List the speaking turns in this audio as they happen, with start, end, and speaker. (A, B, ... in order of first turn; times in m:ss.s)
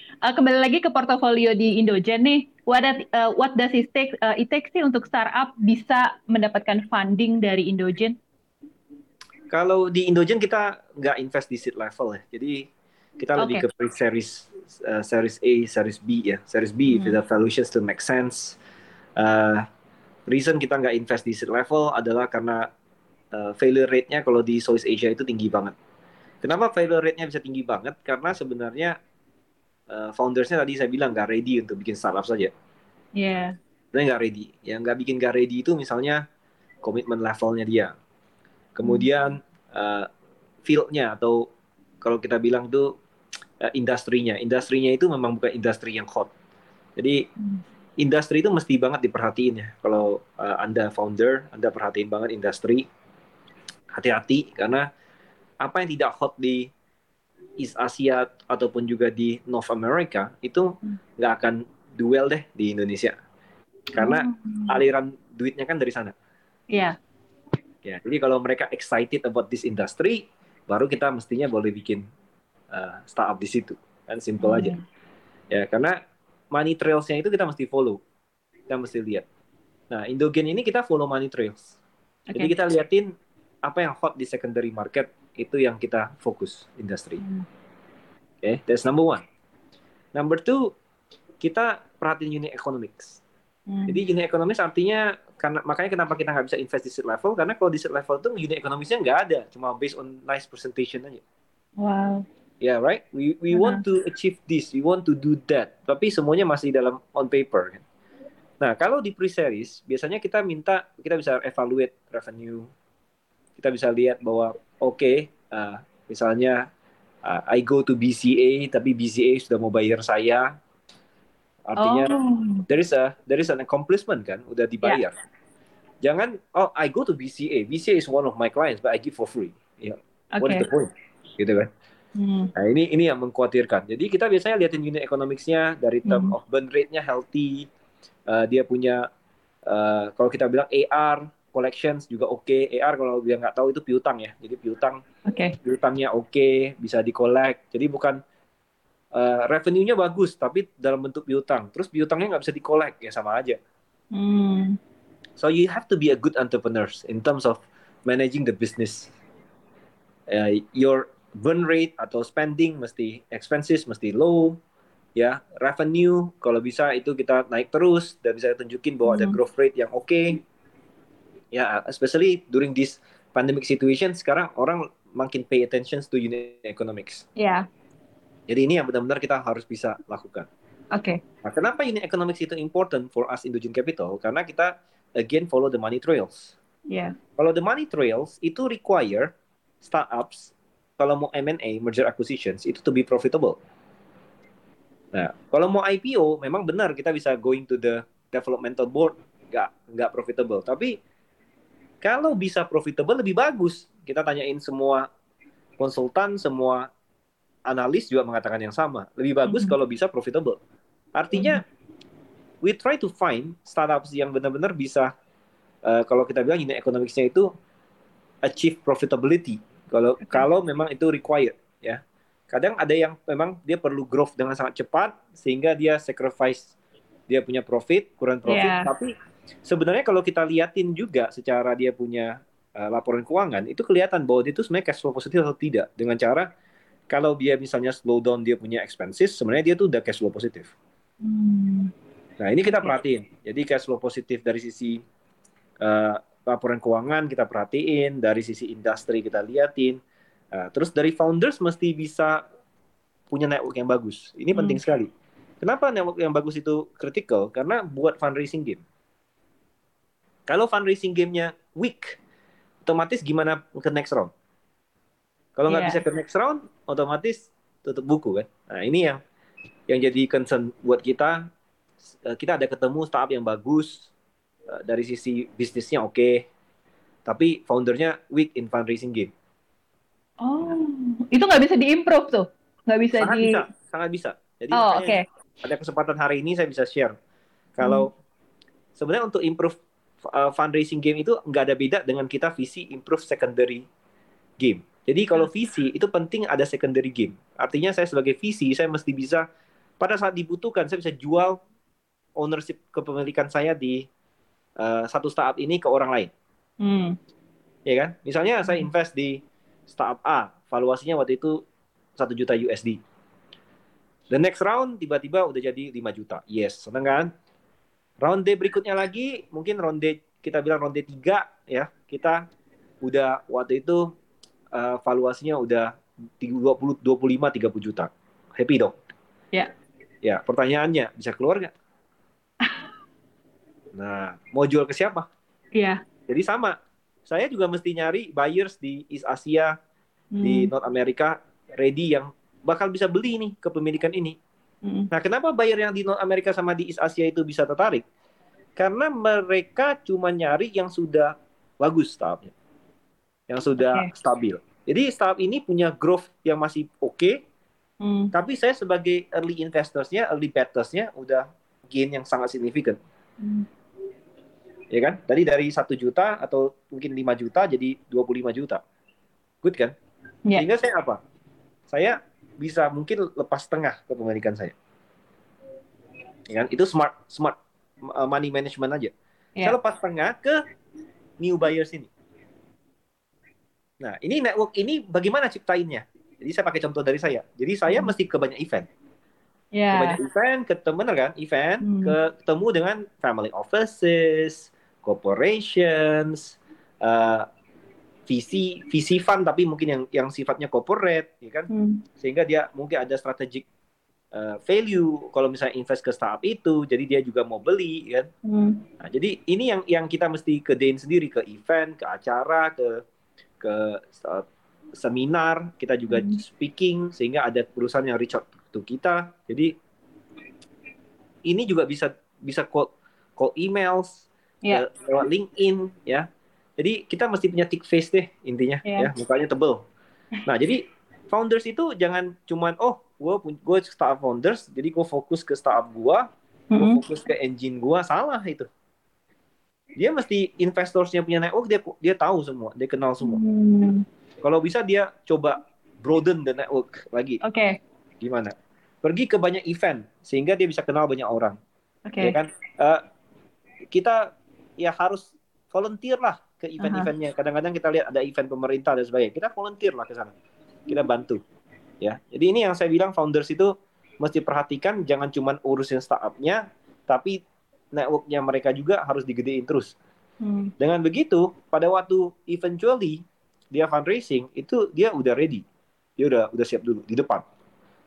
0:00.2-0:08.2 A
0:09.5-0:12.7 B
0:13.2-0:18.6 B
0:13.4-0:13.6 A
0:16.9-0:17.2 A
0:19.2-0:19.6 B
0:20.3-0:22.7 B
0:23.3-0:25.7 B
0:26.4-0:29.0 B
0:29.9-0:32.5 B
0:33.1-0:33.6 A
0:33.9-0:36.2 B
0:36.8-0:37.9 B
0:38.7-0:40.1 B
0:40.6-0:41.5 B
0:42.0-0:42.9 B
0:43.6-0:46.3 B
0:47.0-0:47.2 B
0:48.0-0:52.9 B
0:53.9-0:54.9 B
0:55.6-0:56.7 B
0:57.6-1:03.2 B
1:03.9-1:06.1 B
1:03.9-1:04.8 A
1:06.7-1:07.0 A
1:07.8-1:12.0 B
1:12.7-1:14.7 B
1:14.4-1:14.8 A
1:15.5-1:16.0 B
1:16.5-1:18.0 B
1:18.7-1:19.2 B
1:19.9-1:21.7 B
1:22.3-1:23.1 B
1:23.6-1:27.2 B
1:27.2-1:27.4 A
1:28.4-1:29.2 B
1:30.1-1:30.7 B
1:31.4-1:33.2 B
1:33.7-1:34.0 A
1:33.9-1:41.2 B
1:41.8-1:42.2 A
1:42.6-1:47.8 B
1:43.5-1:43.8 A
1:48.6-1:52.7 B
1:53.6-1:56.7 B
1:57.2-2:00.6 B
2:01.6-2:02.1 B
2:01.8-2:02.6 A
2:02.7-2:05.1 B
2:06.0-2:11.7 B
2:10.3-2:10.6 A
2:12.2-2:12.5 A
2:12.5-2:17.7 B
2:16.1-2:16.3 A
2:18.3-2:19.1 B
2:19.7-2:25.0 B
2:25.3-2:25.5 A
2:25.6-2:28.2 B
2:29.1-2:33.6 B
2:34.1-2:34.8 A
2:35.4-2:39.1 B
2:40.3-2:44.6 B
2:45.2-2:50.4 B
2:49.0-2:49.4 A
2:51.5-2:57.2 B
2:57.4-2:57.6 A
2:58.5-3:00.5 B
3:00.9-3:01.2 A
3:01.4-3:06.5 B
3:06.9-3:07.1 A
3:07.4-3:09.3 B
3:09.8-3:13.6 B
3:15.1-3:21.0 B
3:22.0-3:25.1 B
3:25.8-3:26.9 B
3:27.7-3:30.6 B
3:29.5-3:29.7 A
3:31.1-3:31.6 B
3:31.3-3:31.6 A
3:32.6-3:35.1 B
3:35.8-3:37.5 B
3:38.4-3:46.7 B
3:47.3-3:49.1 B
3:48.5-3:48.9 A
3:49.6-3:56.5 B
3:57.1-4:00.7 B
4:01.2-4:01.9 A
4:02.4-4:05.0 B
4:02.7-4:02.9 A
4:05.8-4:10.0 B
4:10.5-4:12.4 B
4:13.3-4:18.8 B
4:14.5-4:14.8 A
4:20.5-4:22.2 B
4:22.8-4:24.3 B
4:25.6-4:29.2 B
4:25.7-4:26.0 A
4:29.9-4:31.5 B
4:32.2-4:34.1 B
4:34.7-4:36.4 B
4:37.2-4:39.3 B
4:40.4-4:43.6 A
4:43.2-4:47.1 B
4:44.7-4:45.2 A
4:47.8-4:48.1 B
4:47.8-4:48.1 A
4:49.0-4:53.8 B
4:54.6-4:59.4 B
5:00.0-5:01.6 B
5:02.4-5:04.1 B
5:04.8-5:06.3 B
5:06.8-5:07.2 A
5:07.9-5:11.6 B
5:12.2-5:13.0 B
5:14.3-5:17.3 B
5:18.2-5:22.4 B
5:23.0-5:24.1 B
5:24.7-5:28.9 B
5:30.2-5:31.7 B
5:33.9-5:35.3 B
5:35.7-5:36.0 A
5:36.3-5:39.7 B
5:40.3-5:40.7 A
5:40.4-5:44.4 B
5:44.8-5:45.1 A
5:45.1-5:48.0 B
5:48.8-5:52.5 B
5:53.5-5:57.4 B
5:53.8-5:54.0 A
5:58.0-5:58.3 A
5:58.3-6:03.0 B
6:03.4-6:03.7 A
6:04.9-6:08.8 B
6:09.6-6:09.9 B
6:10.5-6:11.2 B
6:11.9-6:14.7 B
6:16.5-6:19.1 B
6:19.6-6:20.6 B
6:21.4-6:22.1 B
6:24.0-6:28.9 B
6:29.7-6:30.2 A
6:29.9-6:37.5 B
6:31.8-6:32.1 A
6:38.3-6:43.6 B
6:41.7-6:42.0 A
6:44.3-6:48.3 B
6:48.4-6:48.8 A
6:49.0-6:53.0 B
6:53.6-6:54.4 B
6:55.0-6:59.7 B
6:56.1-6:56.4 A
7:01.4-7:06.3 B
7:06.8-7:09.8 B
7:10.4-7:18.7 B
7:16.7-7:17.0 A
7:20.0-7:23.4 B
7:23.2-7:24.0 A
7:24.4-7:27.4 B
7:27.4-7:27.8 A
7:28.2-7:31.6 B
7:32.1-7:32.4 A
7:32.2-7:33.0 B
7:33.9-7:40.3 B
7:36.8-7:37.1 A
7:40.9-7:41.4 B
7:42.0-7:47.4 B
7:47.9-7:49.9 B
7:50.4-7:50.7 A
7:50.8-7:53.2 B
7:53.7-7:55.6 B
7:56.2-7:57.4 B